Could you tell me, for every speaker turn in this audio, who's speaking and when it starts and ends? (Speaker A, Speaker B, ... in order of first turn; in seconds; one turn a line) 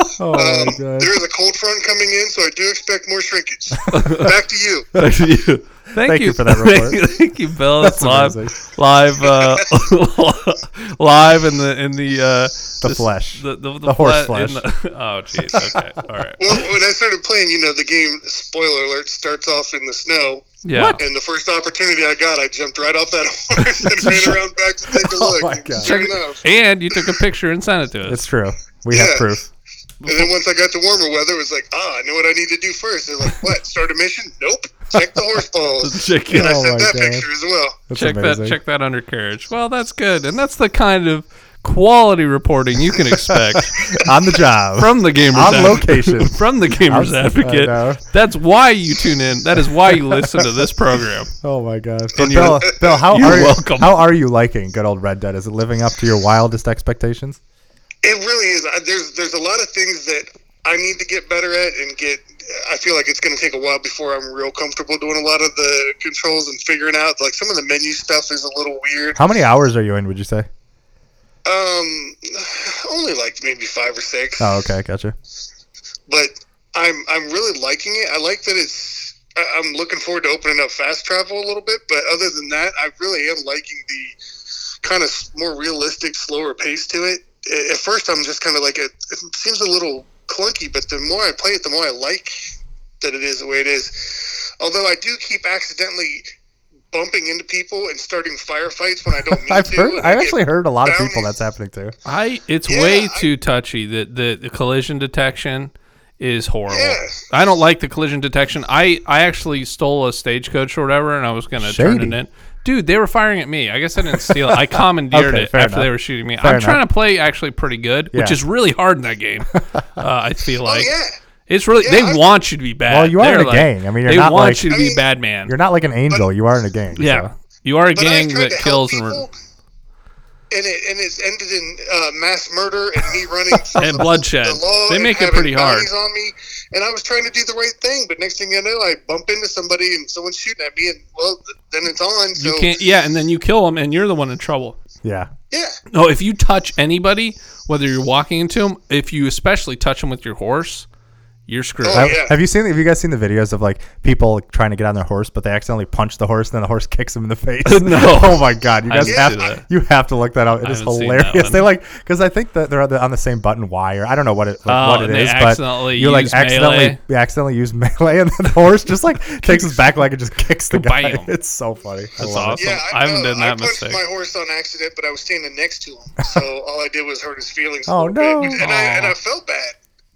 Speaker A: 0.2-1.1
Speaker B: 0.3-4.9
Speaker C: 3.9-4.3
Speaker C: 4.9-16.6
Speaker A: 6.0-7.1
Speaker A: 7.8-8.6
Speaker A: 12.8-14.6
Speaker B: 16.4-26.4
Speaker C: 20.6-21.0
Speaker A: 20.7-21.0
Speaker A: 24.0-24.3
Speaker A: 24.9-26.1
Speaker C: 25.8-28.3
Speaker A: 28.1-29.5
Speaker B: 28.9-29.3
Speaker B: 30.1-37.8
Speaker C: 35.8-36.6
Speaker A: 36.3-37.3
Speaker A: 37.9-38.6
Speaker C: 37.9-44.0
Speaker A: 43.3-48.0
Speaker C: 44.8-51.3
Speaker A: 49.9-50.2
Speaker A: 51.4-57.4
Speaker C: 52.2-54.0
Speaker B: 52.6-53.0
Speaker B: 58.0-69.2
Speaker A: 69.2-70.5
Speaker B: 71.5-74.6
Speaker A: 74.4-75.2
Speaker B: 76.1-84.2
Speaker B: 84.8-92.4
Speaker B: 93.0-96.3
Speaker B: 96.9-101.3
Speaker A: 99.2-101.9
Speaker C: 102.0-120.9
Speaker B: 102.7-103.3
Speaker B: 106.7-107.2
Speaker A: 111.6-112.2
Speaker A: 114.1-116.8
Speaker A: 118.1-118.4
Speaker A: 119.5-119.8
Speaker B: 120.7-121.2
Speaker C: 121.5-125.5
Speaker B: 121.8-122.4
Speaker A: 122.9-124.8
Speaker B: 124.7-125.0
Speaker A: 125.5-127.3
Speaker C: 127.0-129.2
Speaker B: 128.0-129.3
Speaker B: 130.5-142.8
Speaker C: 133.7-135.9
Speaker C: 142.3-144.8
Speaker A: 145.0-145.3
Speaker B: 145.5-145.8
Speaker C: 145.9-150.9
Speaker C: 151.5-152.2
Speaker B: 151.8-152.4
Speaker A: 151.9-172.7
Speaker C: 157.7-159.7
Speaker B: 159.1-159.5
Speaker C: 160.6-161.7
Speaker C: 164.7-167.0
Speaker C: 170.7-171.3
Speaker C: 172.2-174.0
Speaker B: 172.6-179.8
Speaker A: 177.9-178.6
Speaker C: 178.4-179.2